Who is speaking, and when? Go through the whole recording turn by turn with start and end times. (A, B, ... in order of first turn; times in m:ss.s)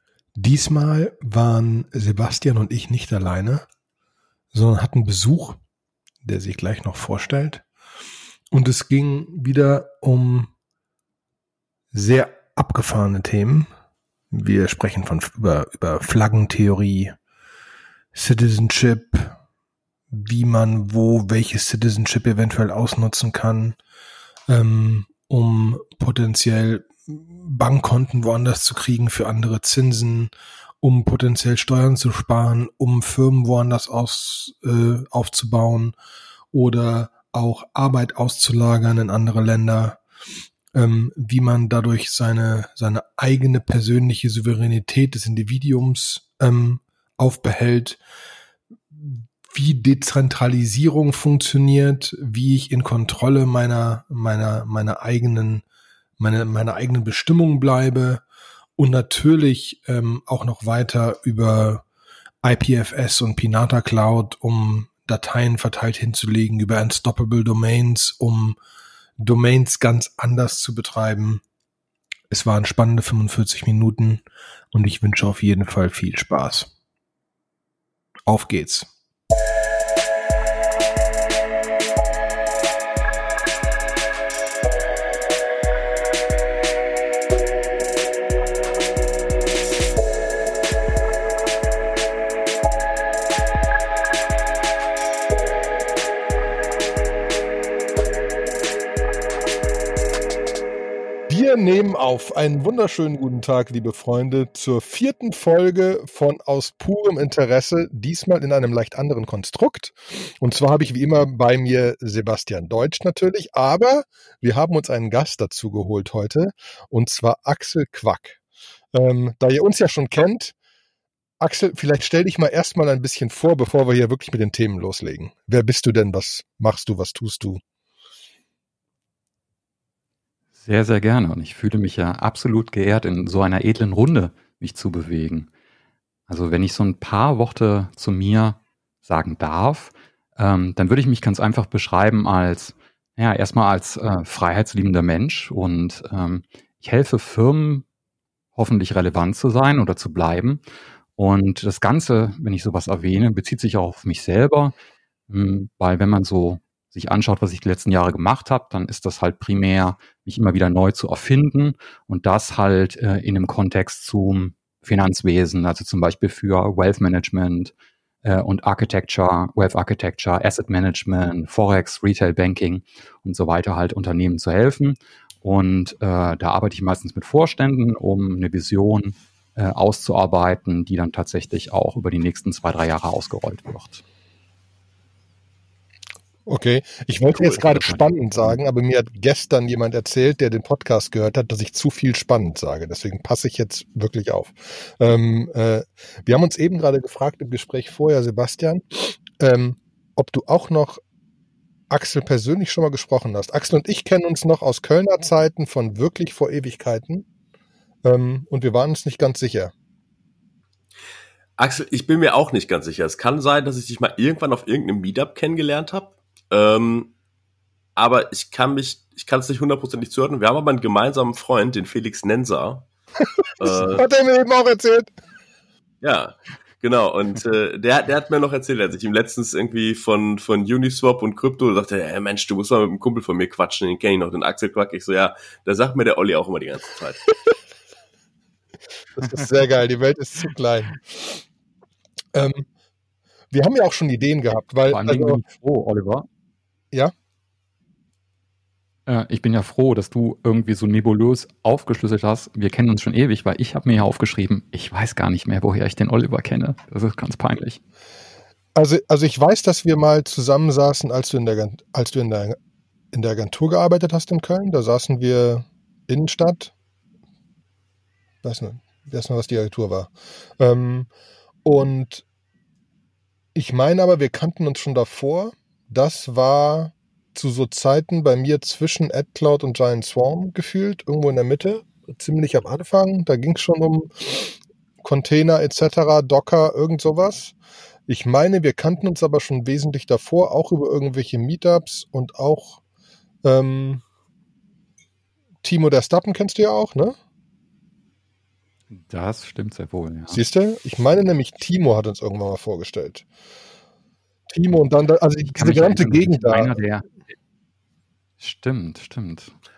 0:00.4-0:03.7 A
0:04.5-0:05.6 A
0:06.2-0:07.6 A
0:08.5-0:10.5 A
0:11.9-0:13.7 A
0:14.3-0:17.2 A
0:18.1-0:19.4 A
0:20.1-0:23.8 A
0:24.5-0:30.3 A
0:30.8-0:36.0 A
0:36.5-0:40.0 A
0:40.7-0:48.0 A
0:48.9-0:55.6 A
0:56.2-0:58.2 A
0:58.8-1:01.8 A
1:02.4-1:08.6 A
1:09.2-1:11.4 A
1:12.3-1:16.7 A
1:18.3-1:18.9 A
1:41.3-1:58.4 A
1:58.9-2:00.6 A
2:01.4-2:07.6 A
2:10.6-2:15.5 B
2:16.3-2:27.8 B
2:28.6-2:30.6 B
2:31.2-2:34.8 B
2:35.3-2:47.7 B
2:48.2-3:04.0 B
3:06.5-3:21.0 A
3:07.4-3:08.5 B
3:21.9-3:27.3 A
3:28.0-3:29.7 A
3:31.6-3:37.1 C
3:38.0-3:42.9 C
3:43.6-3:44.0 C
3:43.6-3:45.1 A
3:46.0-3:57.3 C
3:59.2-4:01.4 A
4:02.3-4:02.7 A
4:03.5-4:05.4 A
4:04.9-4:06.3 B
4:09.1-4:17.8 B
4:18.8-4:22.6 A
4:23.1-4:26.7 A
4:28.4-4:31.1 A
4:31.6-4:32.2 A
4:33.6-4:47.6 A
4:48.1-4:52.8 A
4:53.4-4:54.0 A
4:55.6-4:57.2 A
4:58.9-5:00.4 B
5:00.3-5:03.3 A
5:04.5-5:06.8 A
5:05.6-5:07.1 B
5:08.4-5:09.5 B